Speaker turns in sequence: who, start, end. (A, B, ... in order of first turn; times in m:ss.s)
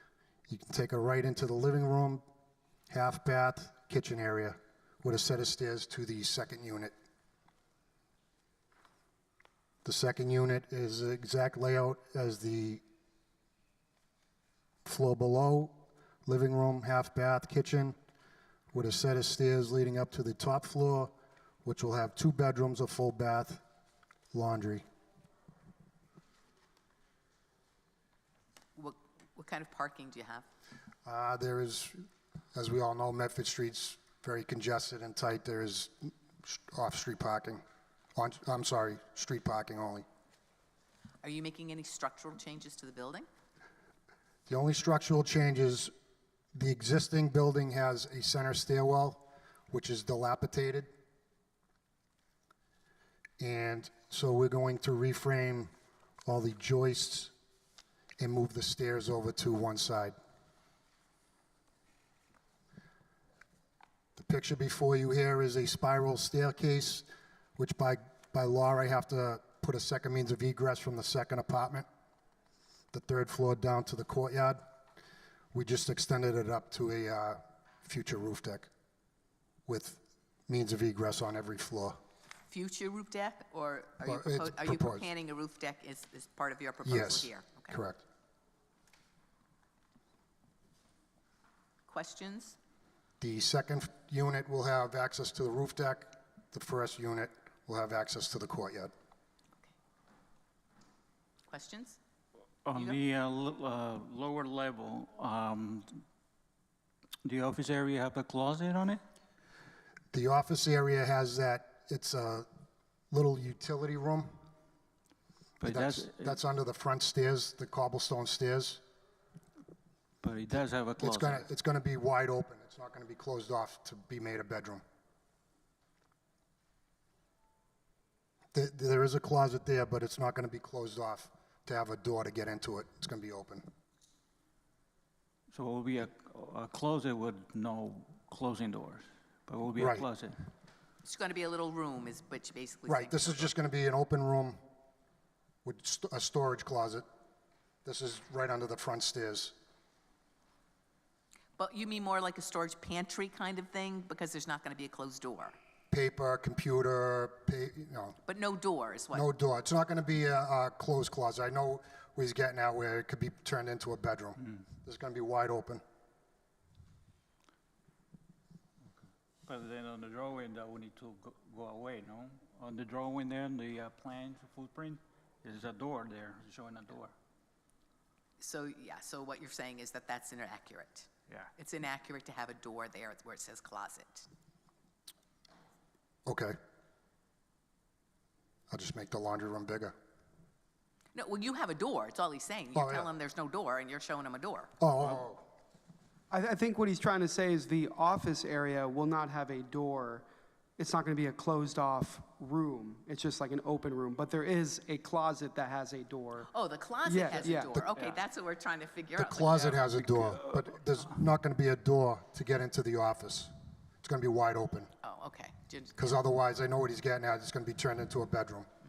0:00.5-0:02.2 A
0:02.9-0:06.9 A
0:09.8-0:12.8 A
0:14.8-0:18.0 A
0:18.7-0:21.1 A
0:21.6-0:23.6 A
0:24.3-0:24.8 A
0:28.8-0:30.4 B
0:31.0-0:37.6 A
0:38.2-0:40.0 A
0:41.2-0:43.3 B
0:44.5-0:45.9 A
0:46.5-0:50.9 A
0:53.4-0:55.7 A
0:56.2-0:57.3 A
0:58.2-1:00.2 A
1:04.2-1:11.8 A
1:12.9-1:14.6 A
1:15.5-1:18.7 A
1:19.7-1:22.0 A
1:22.5-1:27.8 B
1:24.0-1:25.0 A
1:26.8-1:28.0 A
1:31.9-1:32.6 B
1:33.2-1:38.9 A
1:41.5-1:42.0 B
1:42.6-1:46.0 C
1:47.2-1:49.0 C
1:50.1-1:52.5 A
1:53.1-1:54.3 A
1:55.6-1:56.3 C
1:55.6-1:58.8 A
2:00.2-2:01.4 C
2:01.0-2:04.8 A
2:08.5-2:13.6 A
2:15.5-2:20.3 C
2:19.8-2:20.0 A
2:21.0-2:23.5 B
2:22.9-2:24.6 A
2:25.6-2:27.0 A
2:27.8-2:29.5 A
2:31.6-2:35.5 B
2:35.9-2:38.2 A
2:38.2-2:39.2 B
2:39.1-2:45.8 A
2:49.4-2:57.1 C
2:58.4-3:04.3 B
3:06.2-3:06.6 A
3:08.7-3:09.9 A
3:11.1-3:14.7 B
3:12.7-3:13.1 A
3:14.8-3:15.4 A
3:16.3-3:20.3 D
3:20.8-3:26.5 D
3:26.5-3:29.9 B
3:27.0-3:28.2 D
3:29.2-3:34.9 A
3:35.0-3:36.1 B
3:36.0-3:38.7 A